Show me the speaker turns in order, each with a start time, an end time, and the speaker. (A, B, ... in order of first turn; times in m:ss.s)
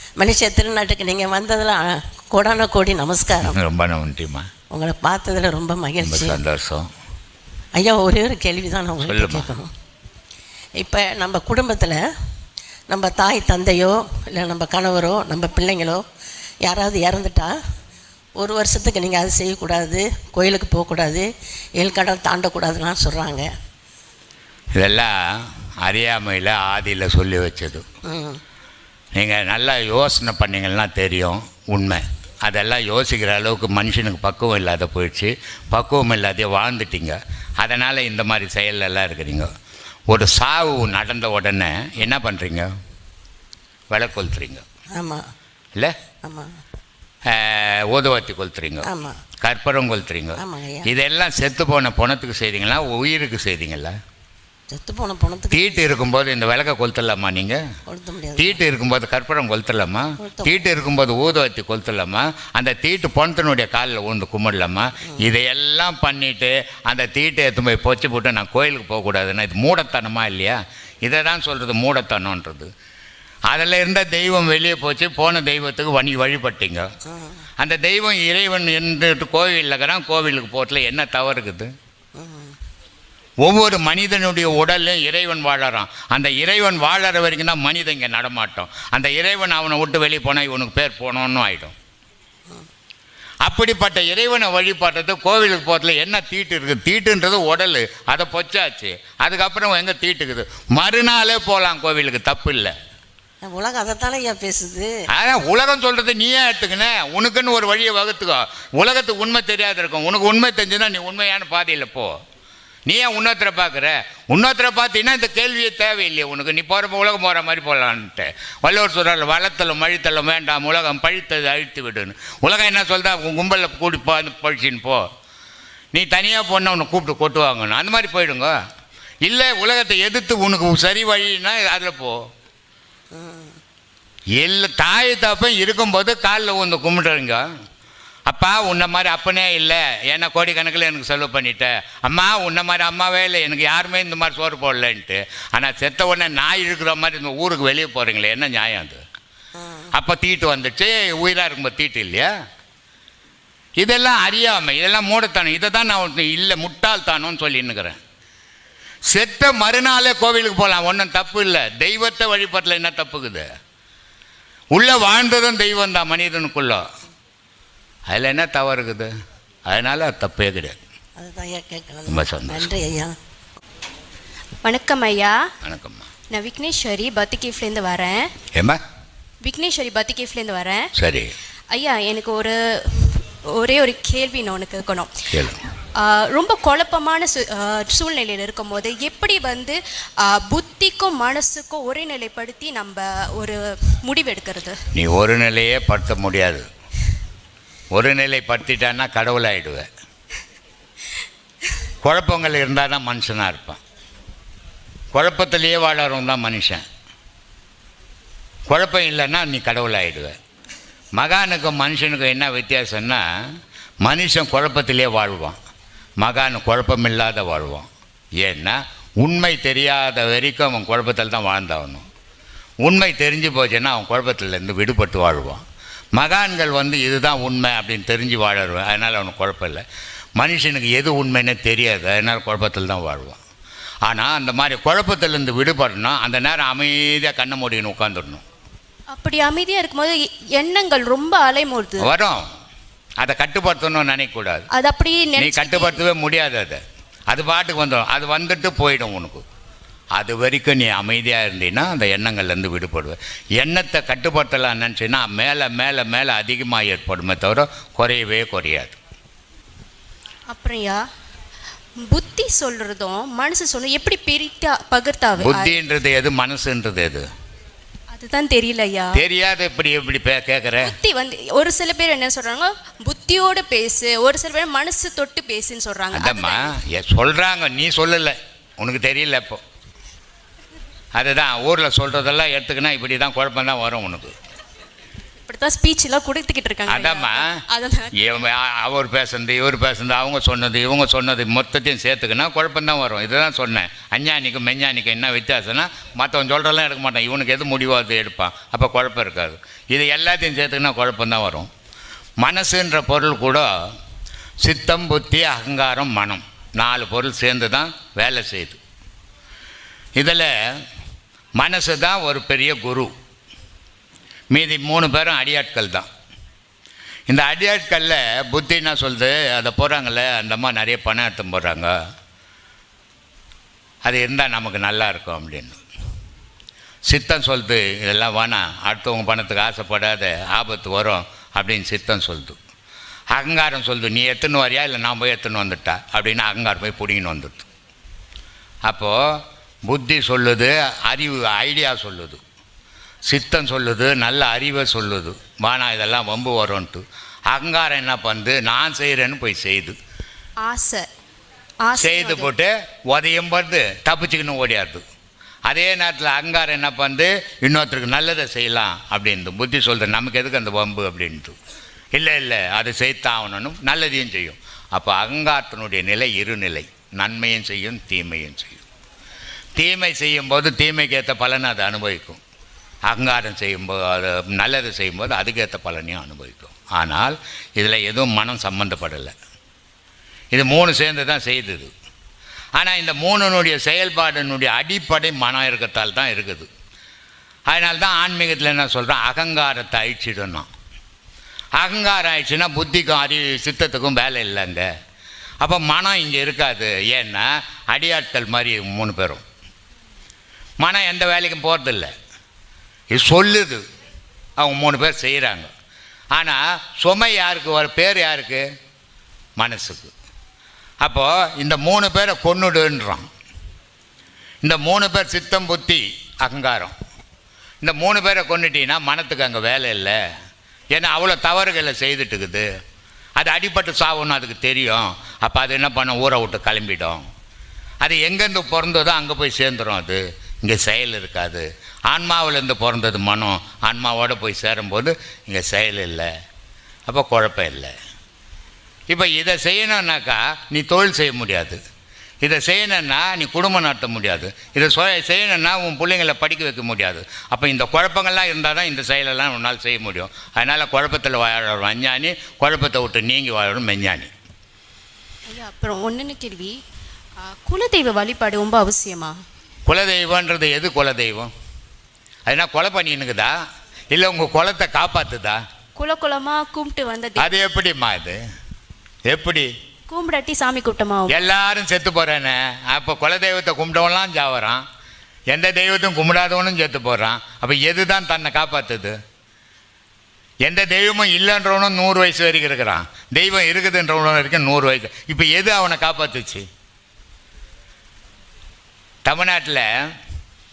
0:00.2-0:03.6 A
0:03.4-0:04.5 B
0:04.7-0:06.4 A
0:06.0-0:06.9 B
0:07.8-0:09.7 A
0:09.0-0:09.5 B
0:10.8-0:12.0 A
0:12.9-0:16.0 A
0:16.6-0:17.5 A
0:18.4-0:21.3 A
0:21.8-0:23.5 A
0:24.7-0:25.1 B
0:25.8-0:27.8 B
0:28.1-0:28.4 A
0:29.2-0:39.5 B
0:40.1-0:42.7 B
0:43.9-0:44.6 B
0:45.0-0:45.2 A
0:46.2-0:46.5 A
0:47.3-0:48.8 B
0:48.8-0:49.2 A
0:49.4-0:53.9 B
0:50.4-0:50.9 A
0:54.7-0:55.8 A
0:55.5-0:57.6 B
0:57.9-0:58.6 A
0:58.4-1:12.7 B
1:00.2-1:00.6 A
1:13.5-1:16.9 B
1:17.1-1:17.4 A
1:17.6-1:21.7 B
1:22.2-1:22.5 A
1:23.4-1:31.7 B
1:33.4-1:42.7 B
1:43.4-1:44.9 A
1:45.1-1:52.1 B
1:52.9-2:05.0 B
2:05.9-2:08.5 B
2:09.2-2:12.2 B
2:13.1-2:13.6 A
2:14.4-2:17.4 B
2:18.3-2:29.0 B
2:29.6-2:29.9 A
2:29.9-2:32.3 B
2:33.8-2:38.0 B
2:39.1-2:43.5 B
2:44.7-2:46.8 B
2:48.1-2:49.1 B
2:49.7-2:50.8 B
2:51.2-2:53.1 A
2:52.1-2:52.7 B
2:54.6-2:55.4 C
2:55.6-2:56.1 B
2:56.3-2:58.3 C
2:58.5-2:58.8 B
2:59.4-3:00.9 C
3:01.0-3:01.3 B
3:01.7-3:05.2 C
3:05.3-3:05.6 B
3:06.0-3:14.8 C
3:14.9-3:16.6 B
3:17.9-3:19.9 B
3:22.0-3:23.8 B
3:25.1-3:26.8 B
3:28.7-3:30.3 B
3:31.2-3:33.2 B
3:34.0-3:35.6 B
3:36.2-3:37.9 B
3:38.4-3:42.0 B
3:42.8-3:45.6 B
3:46.2-3:49.8 B
3:50.4-3:53.4 B
3:54.0-3:58.4 B
3:59.1-4:02.1 C
4:02.0-4:02.4 B
4:03.2-4:04.7 B
4:04.7-4:06.0 C
4:05.4-4:09.4 B
4:10.1-4:19.0 B
4:20.5-4:21.0 C
4:22.0-4:25.8 C
4:25.4-4:27.2 B
4:28.1-4:29.2 C
4:29.1-4:30.9 B
4:30.8-4:36.7 C
4:36.1-4:39.6 B
4:41.1-4:44.3 B
4:45.4-4:48.1 C
4:46.9-4:47.6 B
4:48.1-5:01.7 B
5:02.4-5:03.7 B
5:04.6-5:08.8 B
5:10.2-5:10.5 B
5:11.6-5:13.1 B
5:14.5-5:16.1 B
5:17.3-5:21.9 B
5:24.0-5:25.8 B
5:27.1-5:32.6 B
5:33.3-5:37.6 B
5:38.8-5:39.2 B
5:39.8-5:42.4 B
5:43.2-5:50.0 B
5:50.6-5:51.1 C
5:51.8-5:52.5 C
5:52.0-5:55.0 B
5:55.7-6:01.6 B
6:02.1-6:08.8 B
6:09.8-6:12.4 B
6:13.1-6:19.3 B
6:20.5-6:21.9 B
6:22.8-6:26.7 B
6:27.7-6:30.7 B
6:31.8-6:34.9 B
6:35.6-6:39.4 B
6:40.8-6:42.1 B
6:43.1-6:43.8 B
6:44.6-6:45.7 B
6:46.3-6:48.6 B
6:49.6-6:50.1 B
6:51.0-6:53.2 B
6:54.6-6:56.9 B
6:57.8-7:00.2 B
7:00.9-7:02.6 B
7:03.4-7:07.2 B
7:08.0-7:16.3 B
7:17.1-7:17.9 B
7:19.1-7:21.8 B
7:22.4-7:34.3 B
7:35.5-7:36.8 C
7:37.4-7:39.4 C
7:39.8-7:41.5 B
7:42.5-7:43.5 B
7:44.1-7:45.6 B
7:46.0-7:47.5 C
7:47.4-7:48.4 B
7:49.3-7:49.7 B
7:50.1-7:51.3 C
7:51.3-7:54.8 B
7:55.5-7:59.1 B
8:00.6-8:06.6 B
8:09.2-8:09.8 B